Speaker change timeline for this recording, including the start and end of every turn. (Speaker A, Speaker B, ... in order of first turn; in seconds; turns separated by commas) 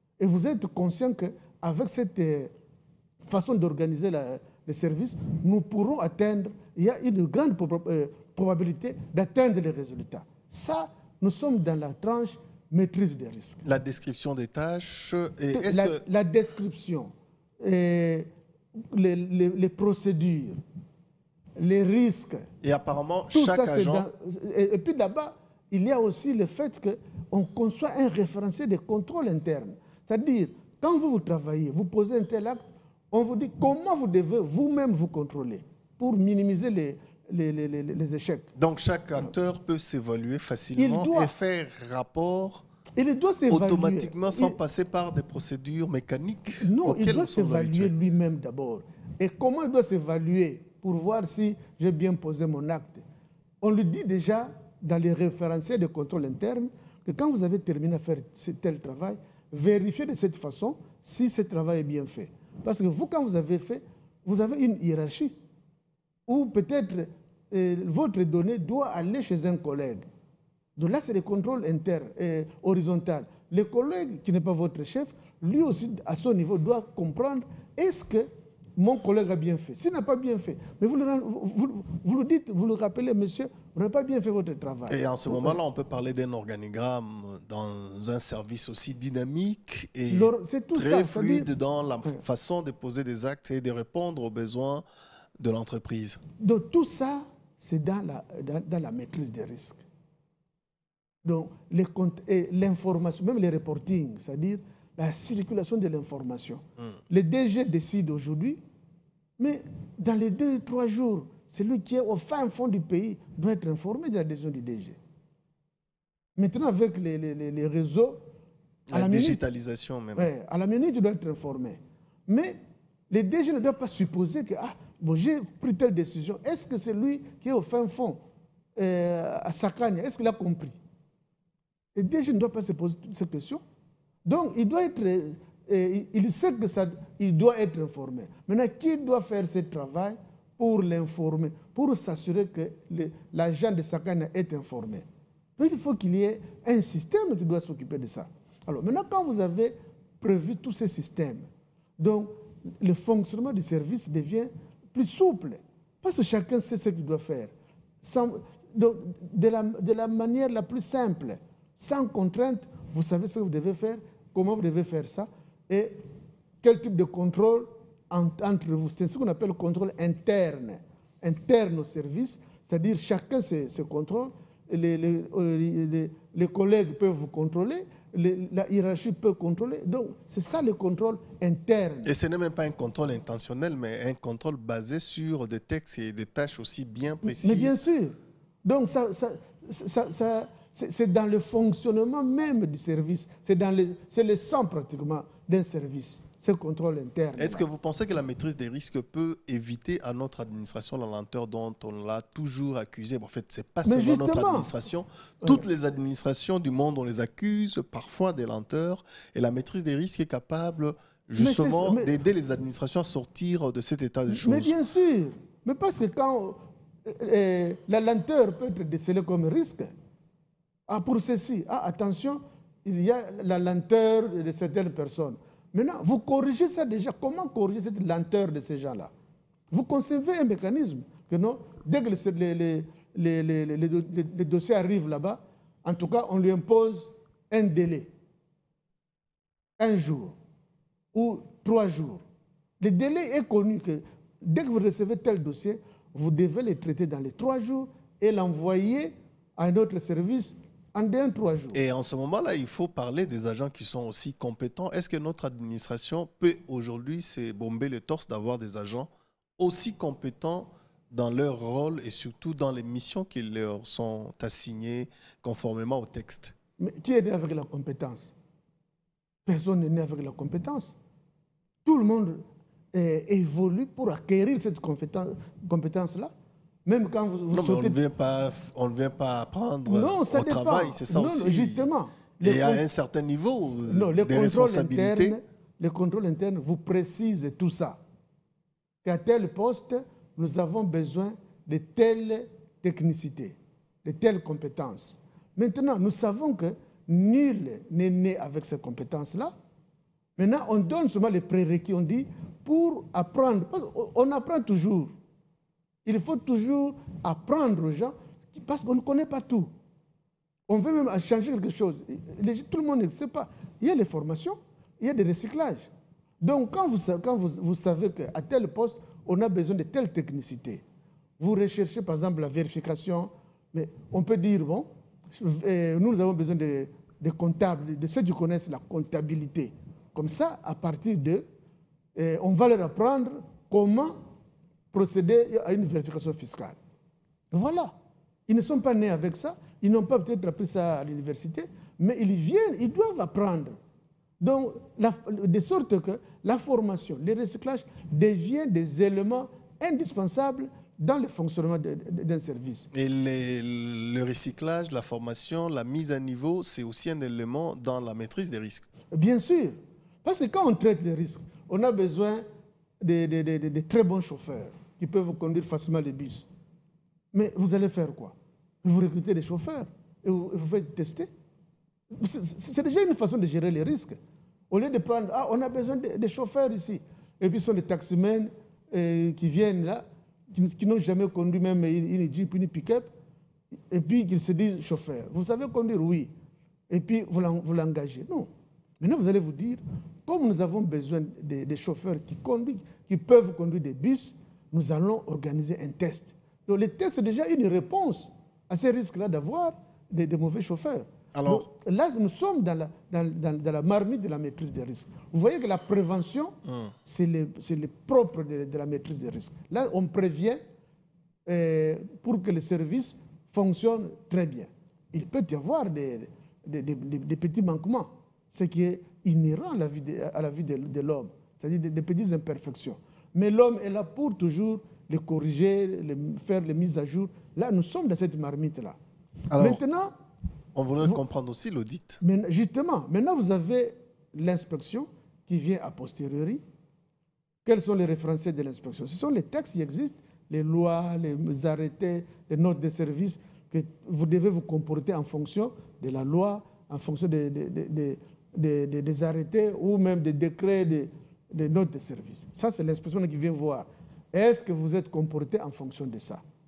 Speaker A: 0.2-2.5, Speaker A: 3.2-13.7, Speaker B: 13.7-16.0, Speaker A: 15.5-20.6, Speaker A: 21.6-22.5, Speaker B: 22.6-24.1, Speaker A: 23.3-38.5, Speaker B: 38.6-42.6, Speaker A: 40.8-41.3, Speaker A: 43.0-44.6, Speaker B: 43.5-47.9, Speaker A: 46.6-53.0, Speaker A: 53.6-65.3, Speaker A: 66.3-70.1, Speaker A: 70.8-85.6, Speaker B: 84.9-94.8, Speaker A: 90.1-91.5, Speaker B: 95.4-96.2, Speaker A: 96.4-99.8, Speaker A: 101.2-108.6, Speaker A: 109.4-115.0, Speaker A: 116.4-118.2, Speaker B: 118.9-120.3, Speaker A: 118.9-119.4, Speaker A: 120.2-122.6, Speaker A: 123.1-128.2, Speaker A: 128.8-130.8, Speaker A: 131.9-133.6, Speaker A: 134.3-145.1, Speaker A: 145.6-151.5, Speaker A: 152.0-166.0, Speaker A: 166.6-182.1, Speaker B: 182.1-187.8, Speaker A: 187.2-197.7, Speaker B: 197.4-214.7, Speaker A: 203.8-204.7, Speaker A: 211.4-212.2, Speaker A: 214.3-219.9, Speaker A: 220.9-229.1, Speaker A: 229.7-238.1, Speaker A: 239.8-240.3, Speaker A: 241.1-242.2, Speaker A: 242.8-251.8, Speaker B: 251.7-266.6, Speaker A: 266.8-268.3, Speaker A: 269.5-270.9, Speaker A: 271.9-276.3, Speaker A: 276.9-278.0, Speaker B: 277.5-281.9, Speaker A: 279.9-282.9, Speaker B: 282.4-285.4, Speaker A: 283.9-288.0, Speaker A: 289.0-299.5, Speaker A: 300.4-305.1, Speaker A: 306.1-309.7, Speaker A: 310.7-315.9, Speaker A: 316.4-320.8, Speaker A: 321.4-331.4, Speaker A: 332.2-334.2, Speaker A: 334.9-336.8, Speaker A: 337.5-337.9, Speaker A: 338.5-343.8, Speaker A: 344.4-352.9, Speaker B: 352.9-358.9, Speaker A: 359.1-362.4, Speaker A: 363.0-366.5, Speaker A: 367.3-371.3, Speaker A: 372.1-374.2, Speaker A: 374.7-383.1, Speaker A: 383.9-386.3, Speaker A: 386.9-388.5, Speaker A: 389.0-410.6, Speaker B: 401.3-401.7, Speaker B: 406.6-406.9, Speaker A: 411.5-429.0, Speaker B: 429.5-429.8, Speaker A: 429.6-430.1, Speaker B: 430.8-432.2, Speaker A: 432.2-436.6, Speaker A: 437.6-456.4